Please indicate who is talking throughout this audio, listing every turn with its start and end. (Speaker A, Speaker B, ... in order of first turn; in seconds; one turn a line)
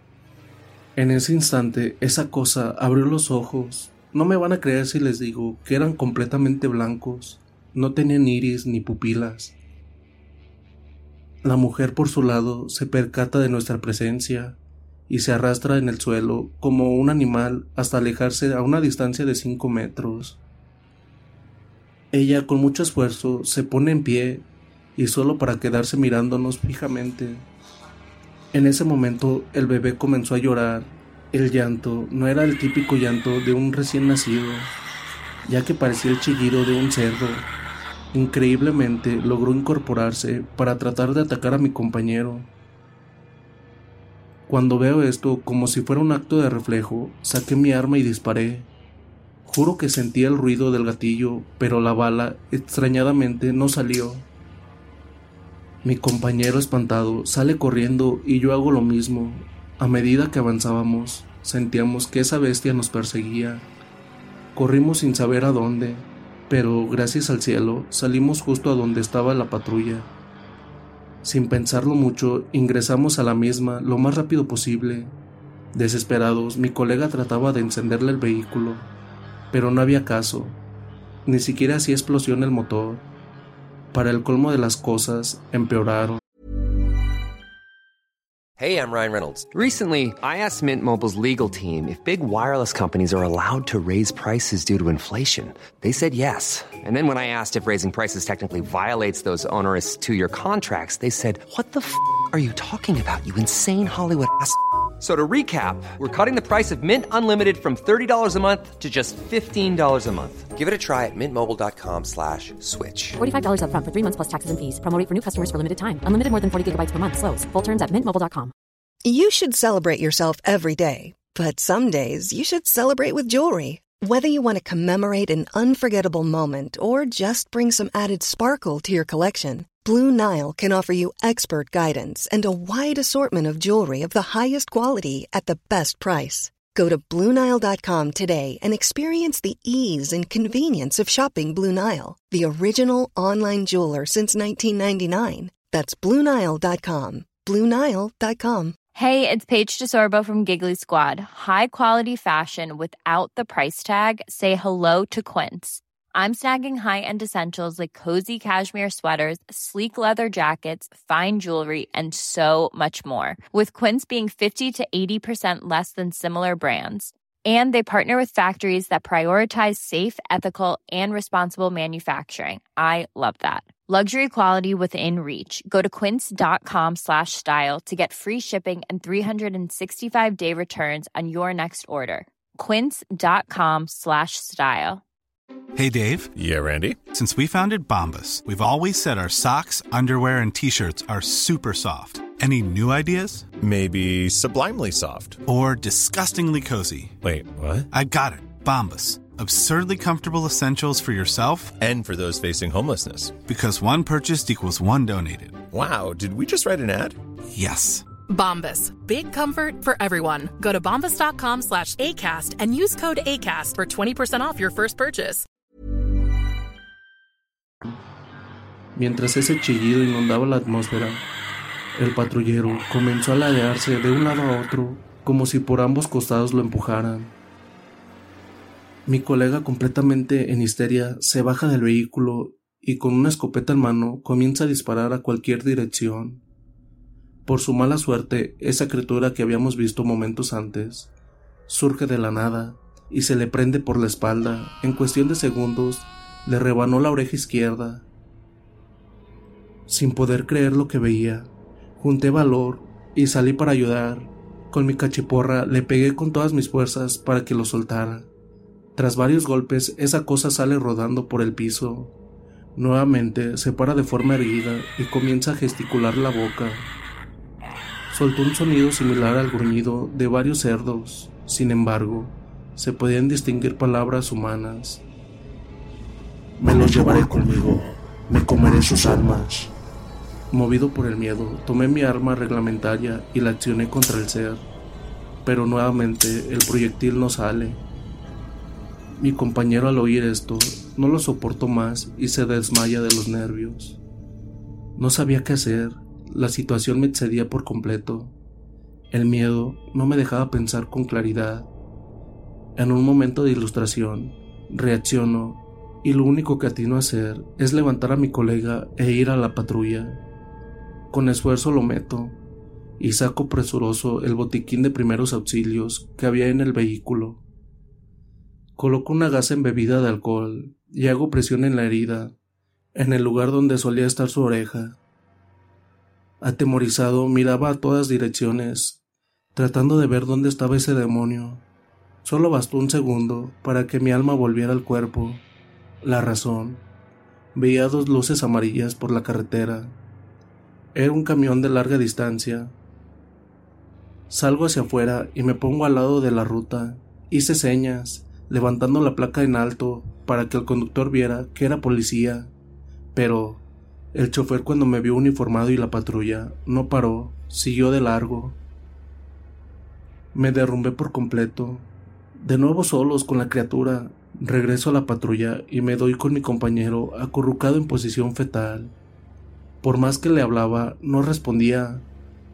Speaker A: 1.0-9.6
Speaker A: 11.4-20.4
Speaker A: 22.1-24.4
Speaker A: 25.0-27.4
Speaker A: 28.5-34.7
Speaker A: 35.5-37.5
Speaker A: 38.1-42.5
Speaker A: 44.5-48.7
Speaker A: 49.4-54.3
Speaker A: 55.8-63.7
Speaker A: 64.5-70.1
Speaker A: 71.2-75.1
Speaker A: 75.7-78.9
Speaker A: 79.5-80.6
Speaker A: 81.2-83.0
Speaker A: 83.9-86.2
Speaker B: 88.6-113.2
Speaker C: 113.2-118.5
Speaker D: 119.0-148.7
Speaker E: 148.9-185.0
Speaker F: 185.8-186.3
Speaker G: 186.3-187.0
Speaker F: 187.1-193.5
Speaker G: 193.6-195.4
Speaker F: 195.4-197.2
Speaker G: 197.2-197.9
Speaker F: 197.9-201.8
Speaker G: 201.8-203.4
Speaker F: 203.4-205.6
Speaker G: 205.7-207.2
Speaker F: 207.5-208.1
Speaker H: 208.3-215.4
Speaker A: 218.9-221.2
Speaker A: 221.9-227.3
Speaker A: 229.1-236.4
Speaker A: 237.4-241.1
Speaker A: 241.7-248.1
Speaker A: 249.9-258.3
Speaker A: 258.9-262.1
Speaker A: 262.8-266.9
Speaker A: 268.1-275.0
Speaker A: 276.6-279.5
Speaker A: 280.5-284.7
Speaker A: 285.4-287.8
Speaker A: 289.2-294.0
Speaker A: 295.0-298.3
Speaker A: 299.1-301.7
Speaker A: 302.8-310.2
Speaker A: 311.1-312.4
Speaker A: 313.0-317.4
Speaker A: 318.8-322.3
Speaker A: 322.9-325.0
Speaker A: 326.4-329.0
Speaker A: 329.5-331.6
Speaker A: 332.2-335.4
Speaker A: 336.0-336.8
Speaker A: 337.5-339.9
Speaker A: 340.9-342.7
Speaker A: 344.3-352.5
Speaker A: 353.1-358.6
Speaker A: 360.3-368.9
Speaker A: 369.8-372.1